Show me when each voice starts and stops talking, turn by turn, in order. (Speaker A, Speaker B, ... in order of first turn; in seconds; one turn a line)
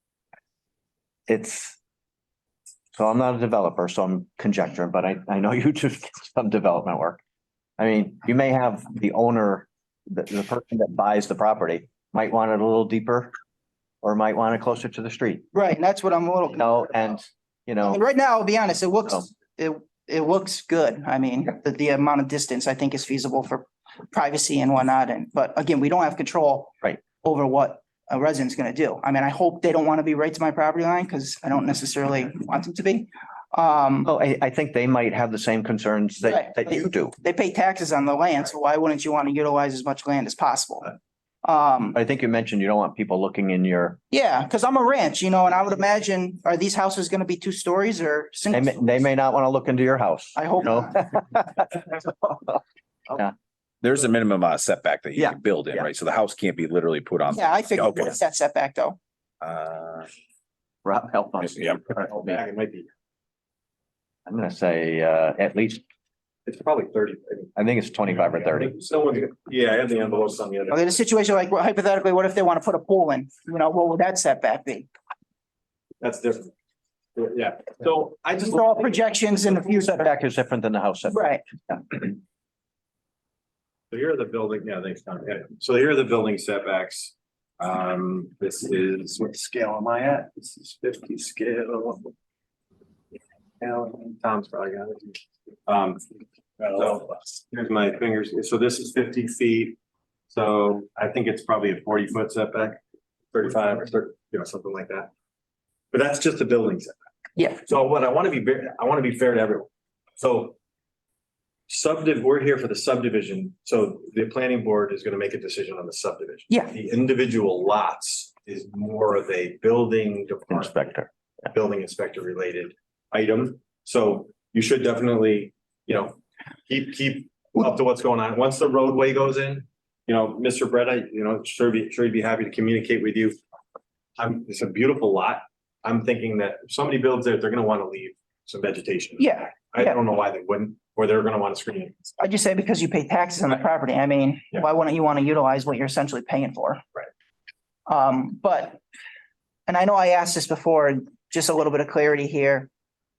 Speaker A: 1.3-1.8
Speaker A: 2.9-7.2
Speaker A: 7.8-13.3
Speaker A: 14.0-15.4
Speaker B: 15.5-17.2
Speaker A: 16.5-18.0
Speaker B: 17.8-34.1
Speaker A: 34.0-37.1
Speaker B: 36.2-42.0
Speaker A: 41.9-44.0
Speaker B: 44.1-49.0
Speaker A: 48.5-52.6
Speaker B: 50.4-51.1
Speaker C: 53.8-58.1
Speaker A: 55.1-55.8
Speaker B: 57.3-59.0
Speaker C: 59.4-60.1
Speaker A: 60.8-62.4
Speaker D: 61.9-62.9
Speaker A: 64.2-65.8
Speaker D: 66.5-67.5
Speaker A: 67.5-68.8
Speaker D: 68.1-71.0
Speaker B: 70.7-74.9
Speaker D: 76.0-76.5
Speaker D: 77.2-79.0
Speaker B: 78.4-80.1
Speaker A: 79.5-81.8
Speaker B: 81.1-81.4
Speaker D: 83.9-92.1
Speaker D: 93.6-96.0
Speaker D: 96.6-99.8
Speaker D: 100.3-102.8
Speaker D: 103.3-105.1
Speaker D: 105.9-107.0
Speaker D: 107.6-109.7
Speaker D: 110.2-110.5
Speaker D: 111.7-120.9
Speaker A: 120.5-121.1
Speaker D: 121.5-133.4
Speaker D: 134.2-142.1
Speaker B: 139.2-139.9
Speaker B: 142.2-146.8
Speaker B: 147.9-148.8
Speaker B: 149.7-152.7